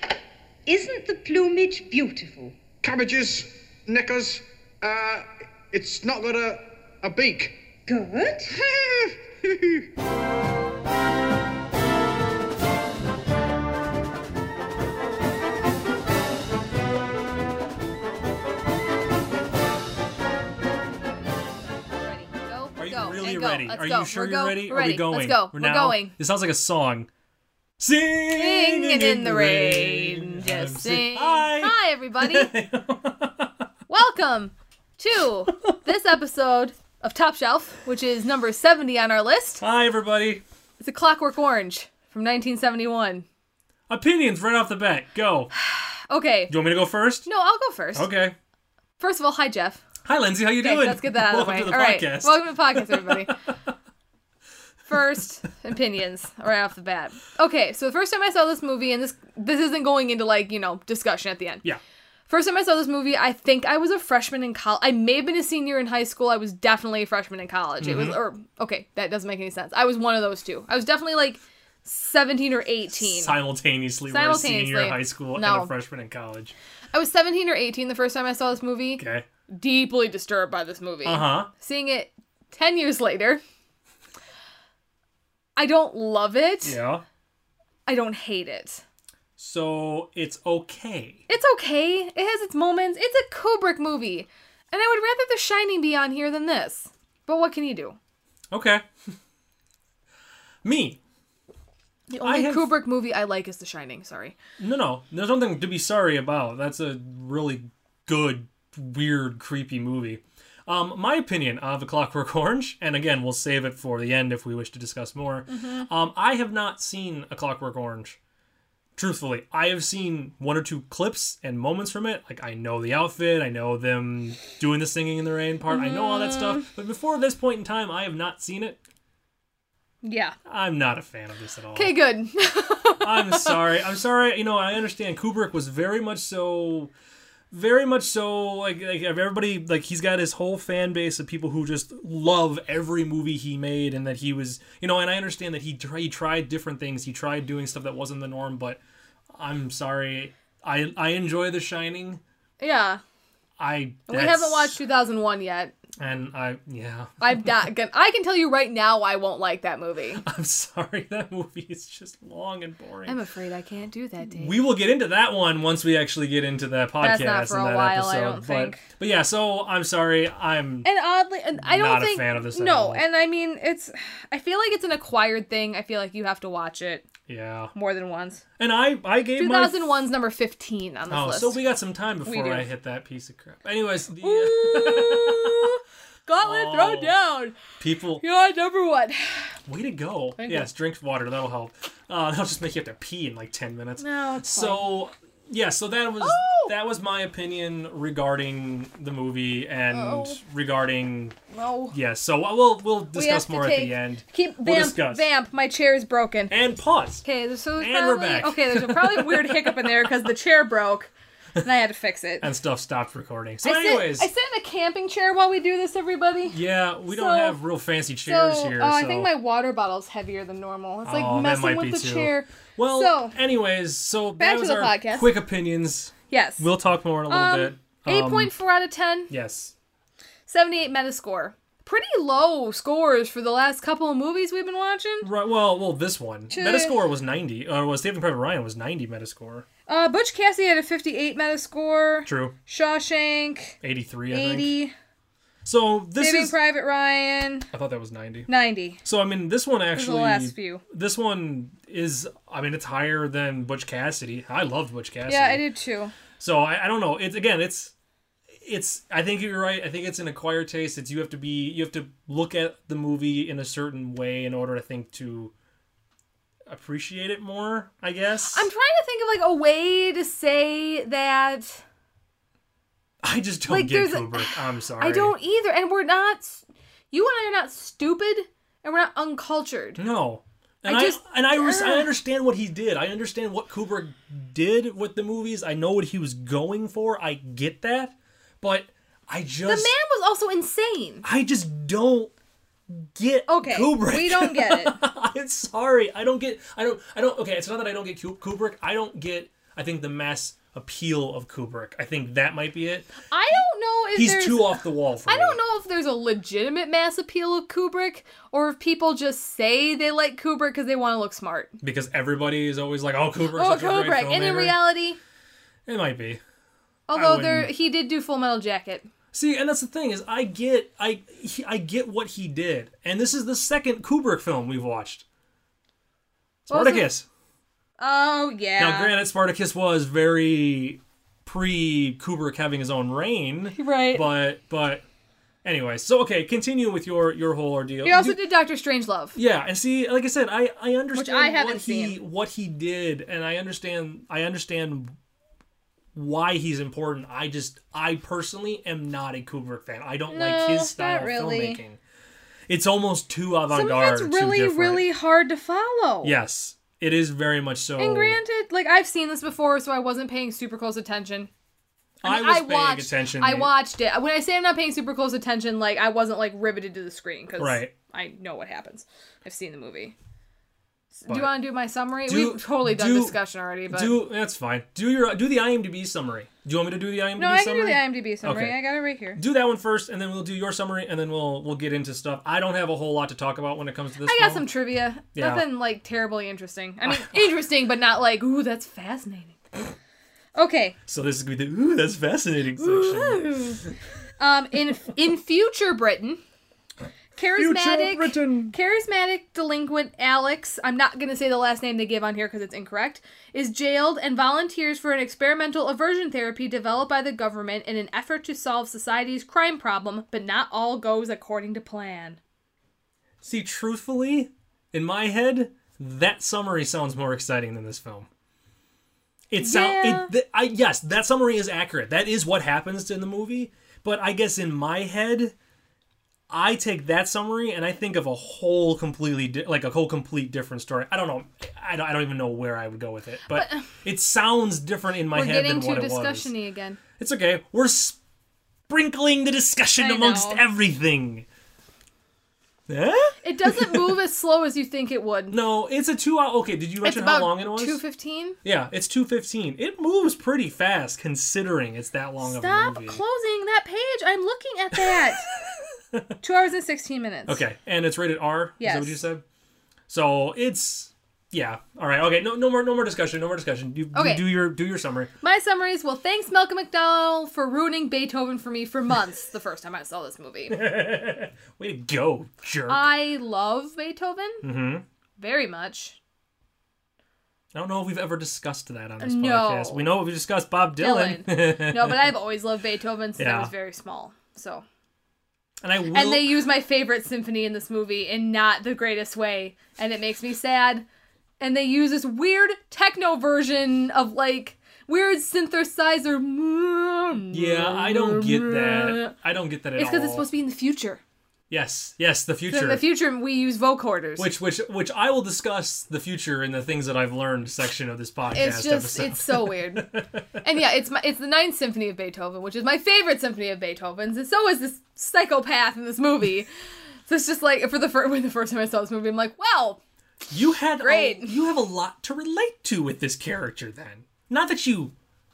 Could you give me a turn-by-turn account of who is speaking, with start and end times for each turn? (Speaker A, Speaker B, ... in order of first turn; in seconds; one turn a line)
Speaker A: 0.7-2.6
Speaker B: 2.8-7.6
Speaker A: 7.8-8.6
Speaker B: 8.5-9.8
Speaker C: 21.9-26.1
Speaker D: 22.8-27.1
Speaker D: 27.8-33.6
Speaker C: 28.3-32.5
Speaker C: 33.9-39.6
Speaker D: 39.6-40.4
Speaker C: 40.8-43.2
Speaker D: 43.9-45.5
Speaker C: 45.5-46.5
Speaker D: 46.5-47.3
Speaker C: 47.2-48.1
Speaker D: 47.9-48.4
Speaker C: 49.0-49.8
Speaker D: 50.0-53.3
Speaker C: 50.6-53.4
Speaker C: 54.9-61.6
Speaker C: 62.3-73.3
Speaker D: 67.8-68.2
Speaker D: 72.9-76.5
Speaker C: 74.1-75.7
Speaker C: 76.9-83.4
Speaker D: 79.0-79.2
Speaker D: 81.0-81.5
Speaker C: 85.5-86.8
Speaker D: 86.6-87.0
Speaker C: 87.8-88.8
Speaker D: 89.4-91.2
Speaker C: 91.3-98.0
Speaker D: 98.5-99.1
Speaker D: 100.6-101.0
Speaker C: 102.1-104.4
Speaker D: 102.2-102.7
Speaker D: 104.6-118.2
Speaker C: 115.5-115.9
Speaker D: 119.0-128.8
Speaker C: 125.7-126.7
Speaker C: 130.0-130.3
Speaker D: 130.4-132.0
Speaker C: 131.7-133.6
Speaker D: 133.0-136.9
Speaker D: 137.5-148.8
Speaker D: 149.3-152.2
Speaker C: 152.6-153.0
Speaker D: 153.6-154.7
Speaker C: 154.1-155.7
Speaker D: 156.0-157.5
Speaker C: 157.2-160.2
Speaker D: 160.2-163.2
Speaker C: 163.1-164.6
Speaker D: 164.4-170.9
Speaker C: 167.0-168.8
Speaker C: 170.8-177.1
Speaker D: 171.6-173.0
Speaker D: 177.3-177.7
Speaker C: 177.7-178.4
Speaker D: 178.6-179.9
Speaker C: 179.4-181.6
Speaker D: 181.1-185.7
Speaker C: 182.2-182.7
Speaker C: 184.2-187.6
Speaker D: 186.4-187.1
Speaker D: 187.8-188.2
Speaker C: 188.2-189.6
Speaker D: 189.7-201.4
Speaker C: 190.4-190.7
Speaker C: 194.0-194.8
Speaker C: 196.2-196.7
Speaker C: 199.9-200.4
Speaker C: 201.5-201.9
Speaker D: 201.9-205.2
Speaker C: 203.1-206.5
Speaker D: 206.5-207.2
Speaker C: 207.2-212.5
Speaker D: 207.8-210.3
Speaker D: 212.4-214.3
Speaker C: 213.6-217.6
Speaker D: 216.5-219.3
Speaker C: 218.2-223.3
Speaker D: 221.1-228.5
Speaker C: 224.4-225.3
Speaker C: 226.3-226.7
Speaker C: 227.3-229.3
Speaker D: 229.3-229.7
Speaker C: 230.5-235.3
Speaker D: 235.2-239.7
Speaker C: 236.5-236.9
Speaker C: 239.9-243.8
Speaker D: 242.2-242.5
Speaker D: 243.8-244.8
Speaker C: 244.3-244.9
Speaker D: 245.6-246.5
Speaker C: 246.2-247.7
Speaker D: 247.7-248.5
Speaker C: 248.5-249.0
Speaker D: 249.0-255.6
Speaker C: 249.9-250.8
Speaker C: 255.3-256.1
Speaker D: 256.4-257.9
Speaker D: 258.6-265.5
Speaker D: 266.7-268.7
Speaker C: 268.5-271.8
Speaker D: 273.2-275.3
Speaker C: 273.7-280.0
Speaker D: 280.0-289.9
Speaker C: 280.8-282.1
Speaker C: 289.6-291.2
Speaker D: 291.2-292.3
Speaker D: 292.9-303.1
Speaker C: 293.5-295.0
Speaker C: 303.3-311.8
Speaker D: 304.1-305.6
Speaker D: 311.8-314.8
Speaker C: 313.5-315.2
Speaker D: 315.9-316.4
Speaker C: 317.1-319.1
Speaker D: 317.1-317.7
Speaker D: 319.3-325.2
Speaker D: 326.6-327.3
Speaker C: 326.7-327.1
Speaker C: 328.0-329.1
Speaker D: 328.8-335.0
Speaker C: 333.7-334.3
Speaker D: 335.6-338.4
Speaker C: 338.0-339.4
Speaker D: 339.3-345.1
Speaker C: 341.1-342.2
Speaker D: 346.1-352.0
Speaker C: 350.3-351.8
Speaker D: 352.7-355.0
Speaker C: 353.7-356.3
Speaker D: 356.2-358.4
Speaker C: 358.0-361.5
Speaker D: 362.2-363.7
Speaker C: 362.2-370.1
Speaker D: 367.6-367.9
Speaker C: 371.1-374.2
Speaker D: 372.3-373.4
Speaker D: 373.9-378.8
Speaker C: 377.4-379.4
Speaker D: 379.3-384.6
Speaker C: 384.2-389.9
Speaker D: 385.3-385.6
Speaker C: 390.5-391.0
Speaker D: 391.1-393.9
Speaker C: 392.8-393.8
Speaker C: 394.4-396.4
Speaker C: 397.4-412.4
Speaker D: 397.6-398.7
Speaker D: 413.4-418.3
Speaker D: 419.5-425.5
Speaker C: 419.6-420.3
Speaker D: 426.5-436.5
Speaker C: 433.5-433.9
Speaker C: 435.3-437.0
Speaker D: 437.2-438.2
Speaker D: 438.9-441.4
Speaker C: 440.0-440.6
Speaker D: 442.9-444.2
Speaker C: 443.4-445.6
Speaker D: 445.5-448.0
Speaker C: 447.0-448.6
Speaker D: 448.6-453.2
Speaker C: 452.4-455.5
Speaker D: 454.9-456.4
Speaker C: 456.4-457.6
Speaker D: 457.5-459.4
Speaker C: 458.8-459.2
Speaker D: 460.1-465.3
Speaker C: 464.1-464.4
Speaker C: 465.4-470.8
Speaker D: 470.7-473.1
Speaker C: 472.9-474.6
Speaker D: 474.6-475.0
Speaker C: 475.4-476.2
Speaker D: 477.7-482.3
Speaker C: 479.2-480.1
Speaker C: 481.0-484.8
Speaker D: 483.4-483.7
Speaker D: 485.8-486.6
Speaker C: 486.1-491.0
Speaker C: 491.6-499.3
Speaker D: 497.5-500.5
Speaker C: 500.0-501.2
Speaker D: 501.7-503.0
Speaker C: 502.7-504.5
Speaker D: 504.4-510.4
Speaker C: 508.5-516.7
Speaker C: 517.3-520.0
Speaker D: 520.5-525.1
Speaker C: 521.0-521.5